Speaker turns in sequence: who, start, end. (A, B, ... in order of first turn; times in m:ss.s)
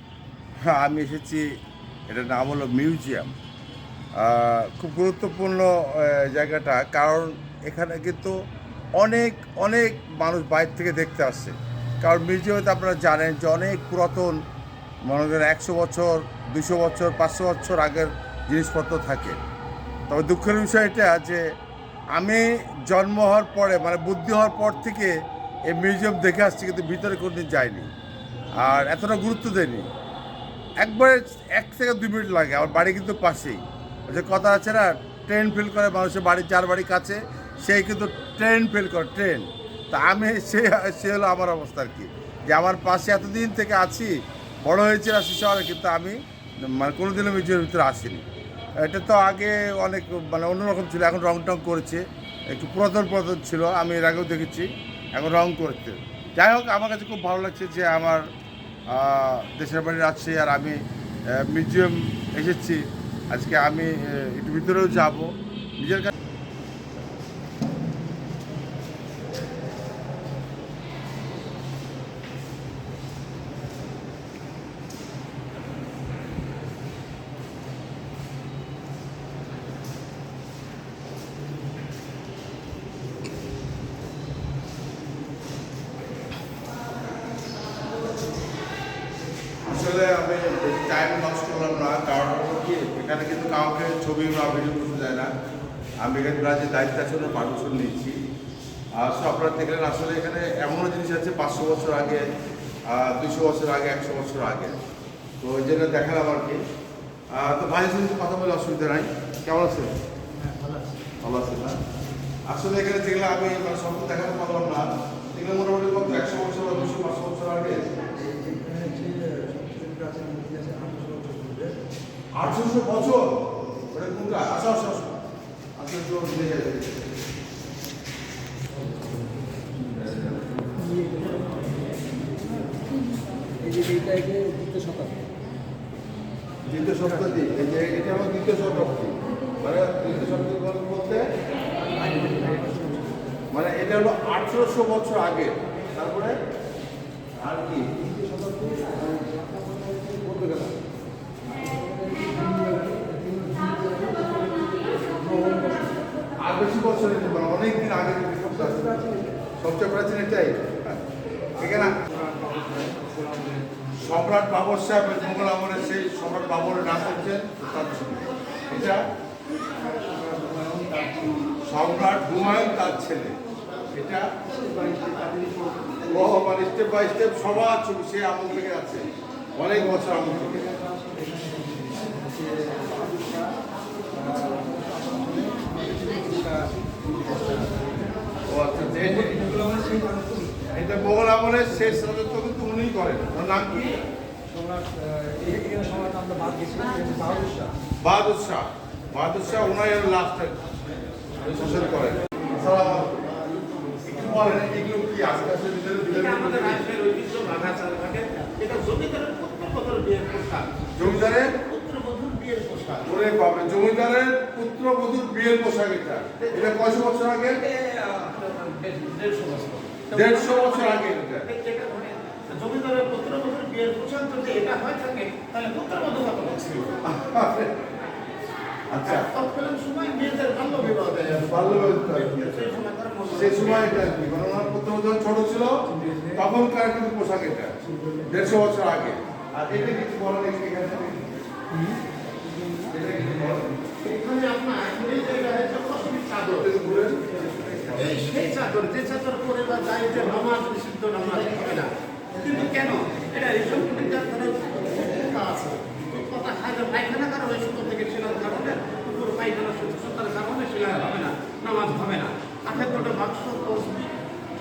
0:00.6-0:03.3 A
0:04.1-0:08.4 A
0:09.0-0:14.4 A
0:15.0-0:19.4 A
0:20.1-0:21.4 A
0:22.1-0:25.1 A
0:25.7-0:27.9 A
0:28.6-0:29.9 A
0:30.8-0:48.2 A
0:48.8-0:58.2 A
0:58.9-1:06.1 A
1:29.6-1:35.3 A
1:36.0-1:38.2 A
1:38.9-1:42.2 A
1:42.8-1:44.8 A
1:45.4-1:46.6 A
1:47.3-1:49.9 A
1:50.4-1:50.9 B
1:51.2-1:51.8 A
1:52.5-1:57.9 A
1:58.2-2:01.7 B
2:02.3-2:05.2 A
2:05.8-2:07.0 A
2:11.0-2:11.3 B
2:13.6-2:15.2 B
2:16.7-2:21.2 A
2:22.0-2:23.1 B
2:23.5-2:26.4 A
2:27.4-2:28.0 A
2:28.0-2:30.7 B
2:32.2-2:35.9 B
2:36.4-2:39.0 A
2:38.7-2:39.2 B
2:39.6-2:41.0 A
2:41.6-2:42.0 A
2:42.0-2:43.8 B
2:44.0-2:49.0 A
2:49.9-2:51.3 B
2:51.6-2:53.4 A
2:53.9-2:54.3 A
2:54.6-2:56.0 B
2:56.0-3:00.7 A
3:00.8-3:03.6 B
3:04.1-3:07.8 B
3:08.5-3:09.5 A
3:09.1-3:10.5 B
3:10.7-3:14.0 A
3:14.5-3:17.7 B
3:18.0-3:20.6 A
3:21.4-3:23.3 A
3:23.5-3:24.0 C
3:24.0-3:26.8 A
3:26.0-3:33.2 C
3:31.0-3:31.5 A
3:33.0-3:37.6 A
3:36.4-3:36.8 C
3:37.5-3:47.0 C
3:40.1-3:41.5 A
3:47.0-3:47.7 A
3:48.9-3:49.2 A
3:49.0-3:54.2 C
3:51.4-3:52.6 A
3:53.3-4:01.2 A
3:56.0-3:56.3 B
4:02.9-4:03.8 A
4:04.0-4:06.7 C
4:06.4-4:07.4 A
4:07.8-4:24.1 C